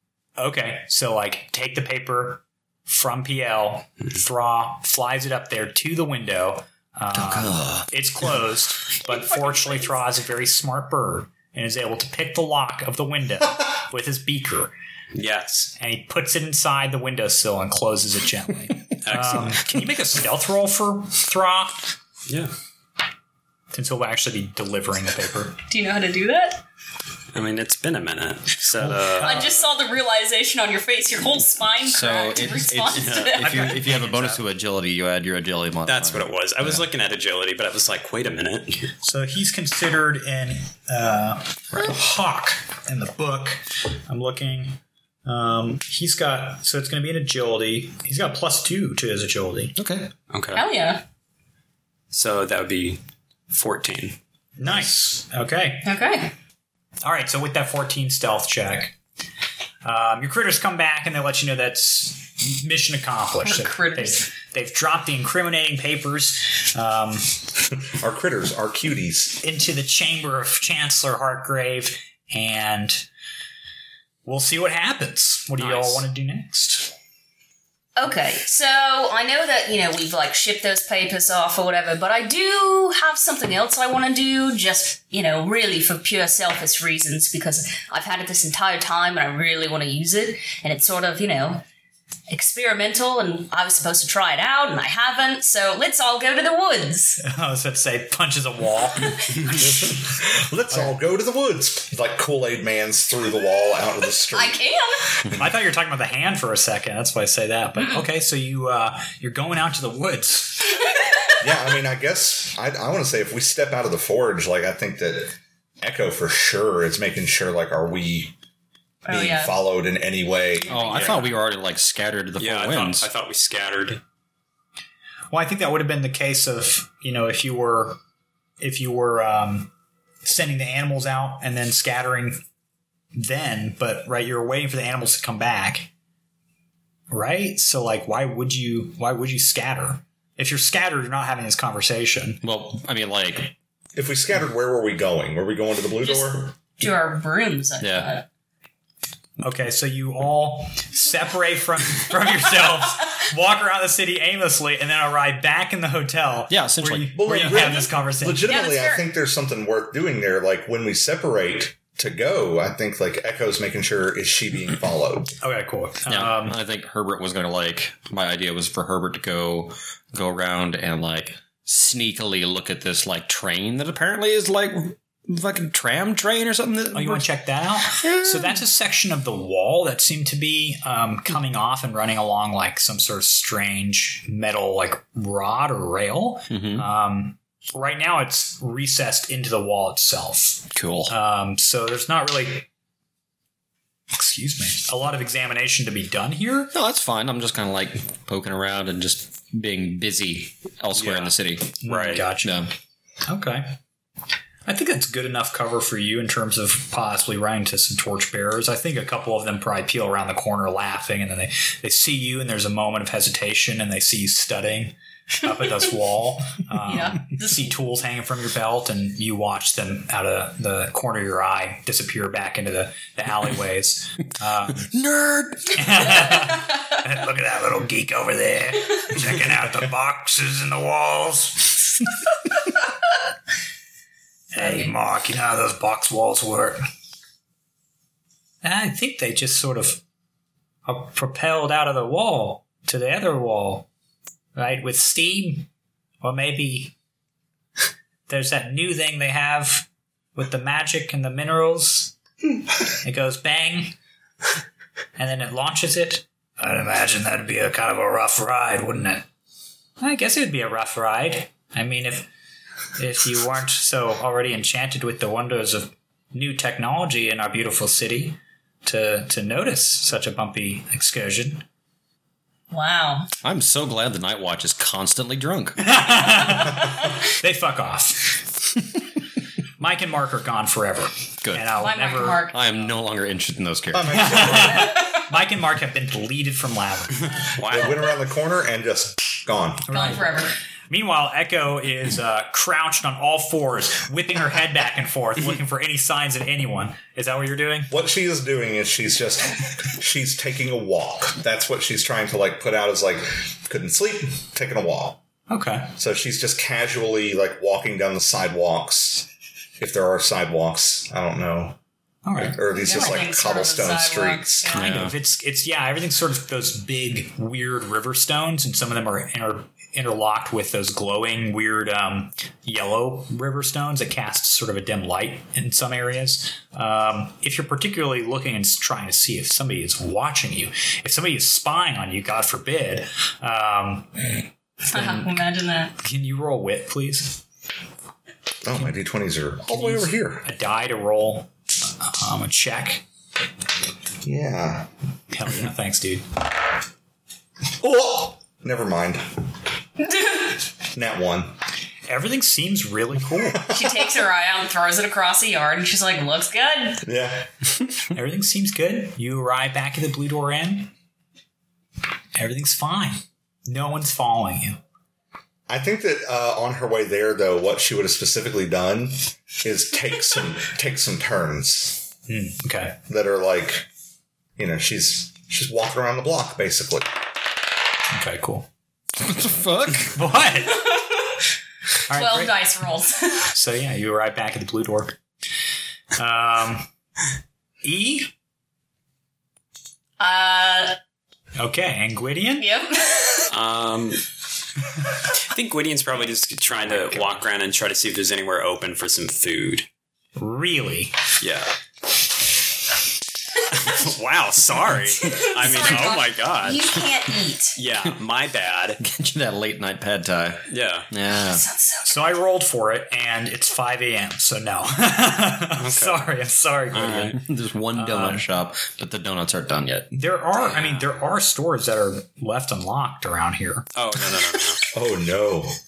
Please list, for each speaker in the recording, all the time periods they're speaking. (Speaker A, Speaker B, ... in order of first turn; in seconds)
Speaker A: 0.4-14.7, 15.8-21.8, 23.7-25.6, 28.8-29.5, 33.4-34.4, 39.0-49.8, 54.6-55.9, 57.0-59.0, 59.8-67.4, 69.4-73.1, 74.2-76.9, 97.2-99.6, 105.3-110.8, 125.3-128.0, 128.6-129.7, 130.2-132.4, 133.1-135.9, 137.1-142.4, 149.4-158.5, 165.4-166.6, 176.9-192.7, 194.1-196.7, 201.8-202.5, 203.2-203.8, 204.7-224.9, 225.7-232.1, 234.5-236.8, 238.6-240.0, 240.8-243.9, 244.5-245.7, 246.2-246.9, 248.3-252.1, 253.0-253.9, 255.2-259.2, 260.0-262.3, 263.0-271.6, 275.8-278.4, 279.8-282.5, 284.1-287.4, 289.9-297.9, 305.5-305.9, 312.2-312.6, 314.7-334.4, 334.9-335.4, 336.0-337.4, 339.7-343.0, 345.3-346.2, 352.1-353.7, 358.1-360.9, 362.3-364.8, 372.3-373.0, 378.1-378.7, 380.1-380.9, 382.1-382.6, 383.4-385.2, 386.1-386.9, 387.8-388.3, 391.6-392.6, 400.4-401.1, 405.8-406.2, 412.0-417.4, 417.9-418.5, 420.1-423.9
Speaker B: 7.1-7.9, 31.8-36.9, 49.8-50.1, 120.7-123.1, 142.4-143.5, 147.8-148.1, 156.5-157.2, 166.1-177.3, 178.0-178.6, 186.5-186.8, 190.7-191.1, 196.7-201.8, 202.3-202.7, 224.9-226.2, 273.4-275.8, 281.4-281.7, 282.5-284.6, 314.7-315.1, 379.2-380.1, 409.0-411.6, 417.3-420.1
Speaker C: 9.0-10.0, 25.7-26.6, 29.2-33.8, 50.5-51.0, 55.8-56.3, 63.4-64.3, 78.0-91.6, 92.3-97.2, 99.0-99.7, 104.3-105.1, 119.0-119.6, 120.7-121.1, 146.0-148.2, 158.4-159.1, 216.8-217.7, 272.7-273.3, 281.8-282.9, 284.8-285.1, 289.9-290.5, 312.7-315.0, 334.9-335.9, 350.0-350.5, 353.7-357.0, 380.8-381.3, 382.1-383.5, 390.2-391.0, 392.6-393.5, 405.2-407.8, 411.3-412.3
Speaker D: 15.1-15.7, 19.0-19.6, 22.3-22.5, 27.3-29.7, 35.9-38.9, 50.3-50.6, 52.1-54.2, 75.6-76.0, 120.9-121.2, 122.4-124.0, 200.9-202.3, 287.4-288.0, 393.5-394.3, 395.3-399.9, 401.4-401.7, 403.7-407.0, 407.7-409.0, 410.7-411.1, 415.8-416.3, 416.9-417.4, 420.6-421.1, 423.9-424.8
Speaker E: 67.8-69.4, 99.6-104.6, 111.4-118.3, 119.1-121.2, 143.9-146.5, 157.1-165.3, 283.9-284.9, 287.7-289.9, 297.9-305.2, 306.0-309.3, 309.8-311.8, 312.4-314.8, 338.6-340.4, 344.2-344.9, 347.8-349.3, 350.9-351.5, 353.5-353.9, 357.0-357.5, 365.7-372.0, 373.1-373.9, 374.6-377.1, 424.9-425.7